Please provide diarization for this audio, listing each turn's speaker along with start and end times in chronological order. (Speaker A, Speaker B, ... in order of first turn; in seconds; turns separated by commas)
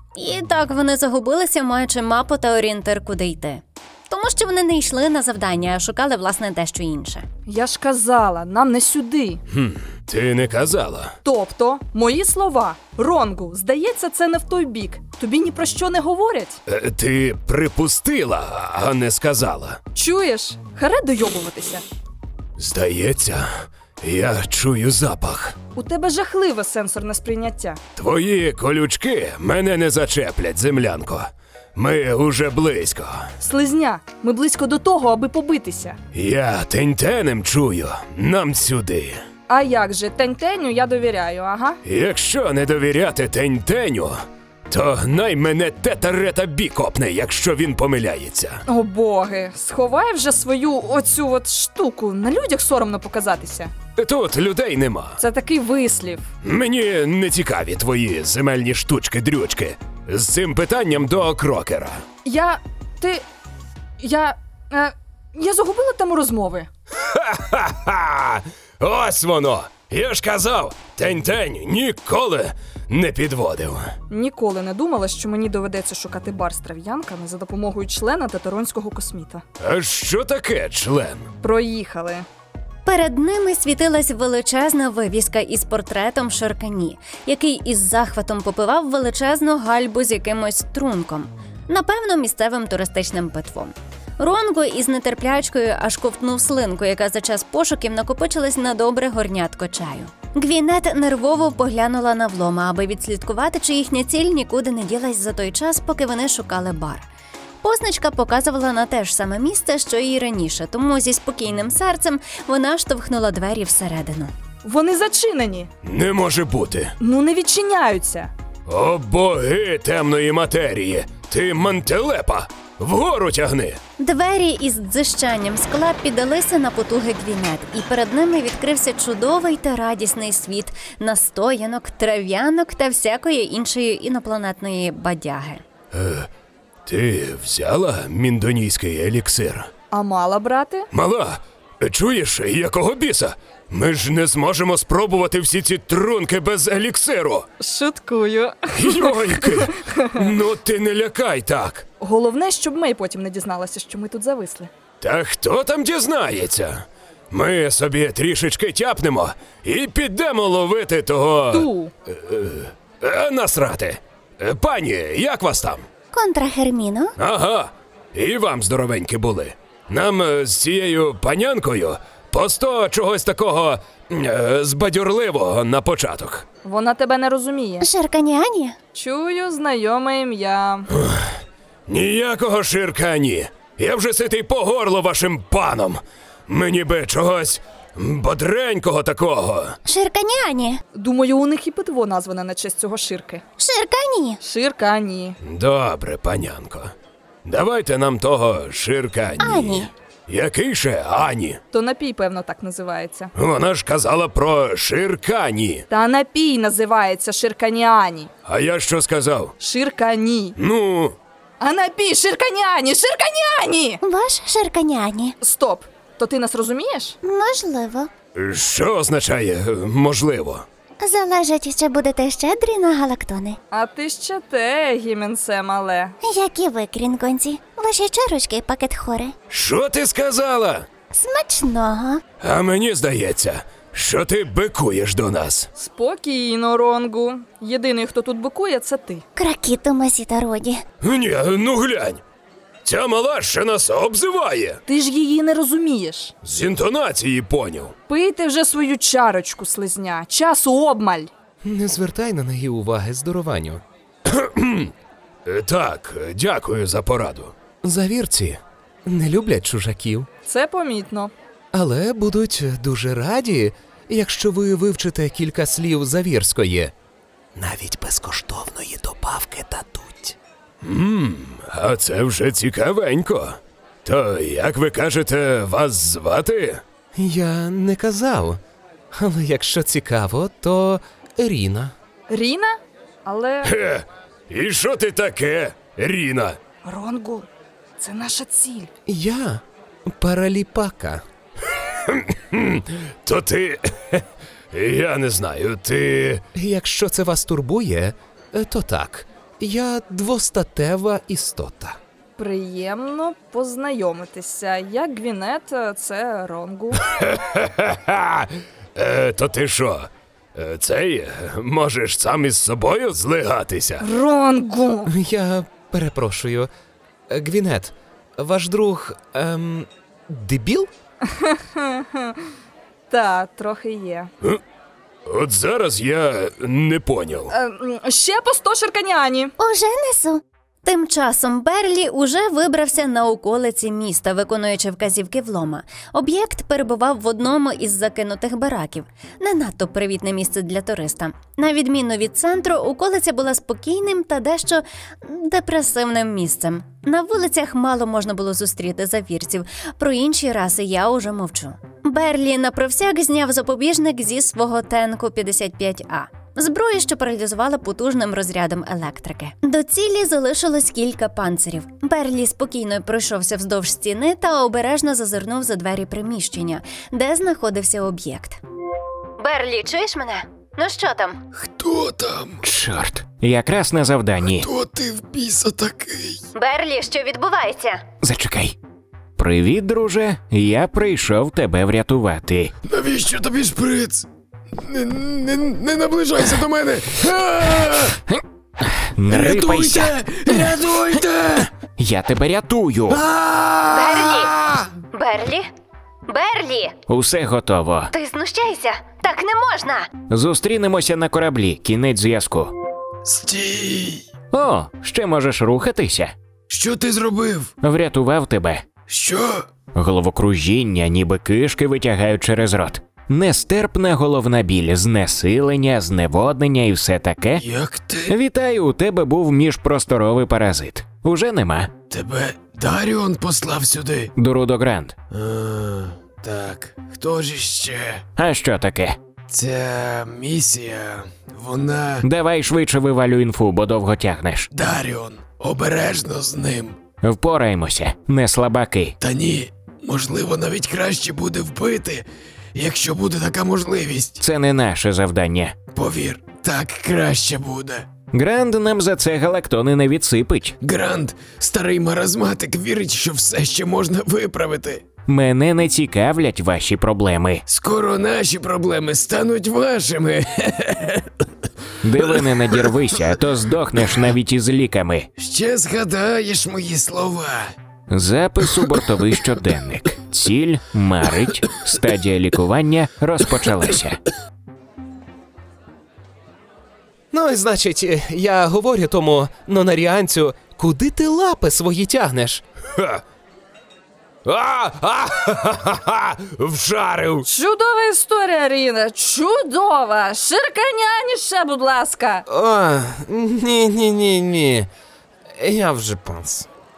Speaker A: 0.1-7.2, Speaker B: 7.5-9.4, Speaker C: 9.5-11.1, Speaker B: 11.2-16.6, Speaker C: 16.7-19.8, Speaker B: 19.9-21.8, Speaker C: 22.6-23.5, Speaker C: 24.0-25.6, Speaker B: 25.8-27.8, Speaker C: 27.9-33.3, Speaker B: 33.4-36.0, Speaker C: 36.1-39.2, Speaker B: 39.5-41.8, Speaker C: 41.8-44.2, Speaker C: 44.7-48.6, Speaker B: 48.7-53.7, Speaker C: 54.0-55.2, Speaker B: 55.2-56.3, Speaker C: 56.4-62.0, Speaker B: 62.2-63.2, Speaker B: 64.0-66.7, Speaker C: 67.0-73.9, Speaker B: 74.1-79.4, Speaker C: 79.6-81.3, Speaker B: 81.4-82.2, Speaker A: 82.8-107.1, Speaker A: 107.6-114.3, Speaker B: 114.6-115.7, Speaker C: 115.8-116.9, Speaker B: 117.0-118.3, Speaker C: 118.7-123.8, Speaker A: 124.0-135.6, Speaker C: 135.9-136.3, Speaker C: 136.8-139.7, Speaker B: 139.9-140.9, Speaker C: 140.9-147.4, Speaker B: 147.6-150.2, Speaker C: 148.7-151.8, Speaker B: 152.0-154.7, Speaker C: 155.0-165.8, Speaker B: 161.5-161.9, Speaker A: 166.1-167.2, Speaker C: 167.2-176.4, Speaker B: 176.6-177.8, Speaker A: 177.8-178.8, Speaker B: 178.9-180.9, Speaker C: 180.9-181.3, Speaker C: 181.9-189.8, Speaker A: 189.8-190.8, Speaker B: 190.9-193.4, Speaker A: 193.6-194.4, Speaker B: 194.4-195.3, Speaker C: 195.4-196.9, Speaker C: 197.4-201.6, Speaker A: 199.4-199.9, Speaker B: 201.7-203.3, Speaker C: 203.3-205.8, Speaker B: 205.9-208.3, Speaker C: 208.4-209.5, Speaker B: 209.6-210.6, Speaker C: 210.6-211.2, Speaker B: 211.6-214.0, Speaker A: 214.0-215.3, Speaker B: 215.4-217.1, Speaker A: 217.2-218.1, Speaker C: 218.3-220.6, Speaker A: 221.0-223.6, Speaker B: 223.7-226.1, Speaker A: 226.2-229.3, Speaker C: 229.5-230.8, Speaker A: 231.1-232.2, Speaker C: 232.4-235.7, Speaker B: 235.8-239.2, Speaker A: 239.3-240.8, Speaker C: 241.0-242.2, Speaker C: 242.8-244.8, Speaker B: 244.9-246.3, Speaker C: 246.4-247.9, Speaker B: 248.1-251.3, Speaker D: 251.6-253.8, Speaker C: 254.2-254.9, Speaker C: 255.4-257.6, Speaker D: 257.8-260.3, Speaker B: 260.4-261.3, Speaker D: 261.7-266.9, Speaker D: 267.6-270.4, Speaker C: 270.8-276.8, Speaker D: 277.1-278.6, Speaker D: 279.1-281.9, Speaker B: 282.3-283.7, Speaker C: 283.6-286.6, Speaker B: 286.8-287.5, Speaker B: 288.0-288.9, Speaker D: 289.1-291.2, Speaker C: 291.7-296.5, Speaker D: 296.5-302.0, Speaker B: 302.4-307.0, Speaker C: 307.1-314.0, Speaker B: 314.0-315.1, Speaker D: 315.1-316.7, Speaker D: 317.3-320.9, Speaker B: 321.3-322.4, Speaker B: 323.1-324.3, Speaker C: 325.2-327.5, Speaker B: 327.5-329.5, Speaker A: 329.6-368.6, Speaker A: 369.4-371.4, Speaker E: 371.5-372.6, Speaker F: 372.6-374.7, Speaker E: 374.5-376.4, Speaker A: 376.5-378.0, Speaker F: 378.2-378.7, Speaker F: 379.4-382.7, Speaker E: 382.8-384.2, Speaker E: 384.8-388.2, Speaker F: 388.9-390.8, Speaker E: 389.3-391.7, Speaker F: 392.0-393.2, Speaker E: 393.1-394.9, Speaker A: 393.9-394.5, Speaker A: 395.1-395.7, Speaker A: 396.3-397.0, Speaker F: 397.1-398.1, Speaker A: 398.1-400.1, Speaker F: 400.3-402.7, Speaker E: 403.2-404.2, Speaker F: 404.5-406.3, Speaker E: 406.7-407.7, Speaker F: 407.8-408.8, Speaker E: 409.1-409.6, Speaker F: 409.9-417.6, Speaker E: 417.6-418.4, Speaker F: 418.3-421.9, Speaker E: 422.1-424.3, Speaker F: 424.4-425.1, Speaker E: 425.3-428.2, Speaker F: 428.4-429.2, Speaker E: 429.5-432.2, Speaker F: 432.2-434.7, Speaker E: 434.7-437.0, Speaker F: 437.2-439.1, Speaker E: 439.2-444.4, Speaker F: 444.4-445.8, Speaker E: 445.9-448.1, Speaker F: 448.3-450.7, Speaker E: 450.8-455.1, Speaker F: 455.2-457.6, Speaker E: 457.7-461.3, Speaker F: 462.0-465.3, Speaker E: 462.2-462.8, Speaker E: 465.4-467.7, Speaker F: 468.1-474.2, Speaker D: 477.3-482.6, Speaker C: 484.5-486.5, Speaker D: 486.6-487.4, Speaker B: 487.5-492.4, Speaker D: 492.5-494.9, Speaker D: 495.6-496.6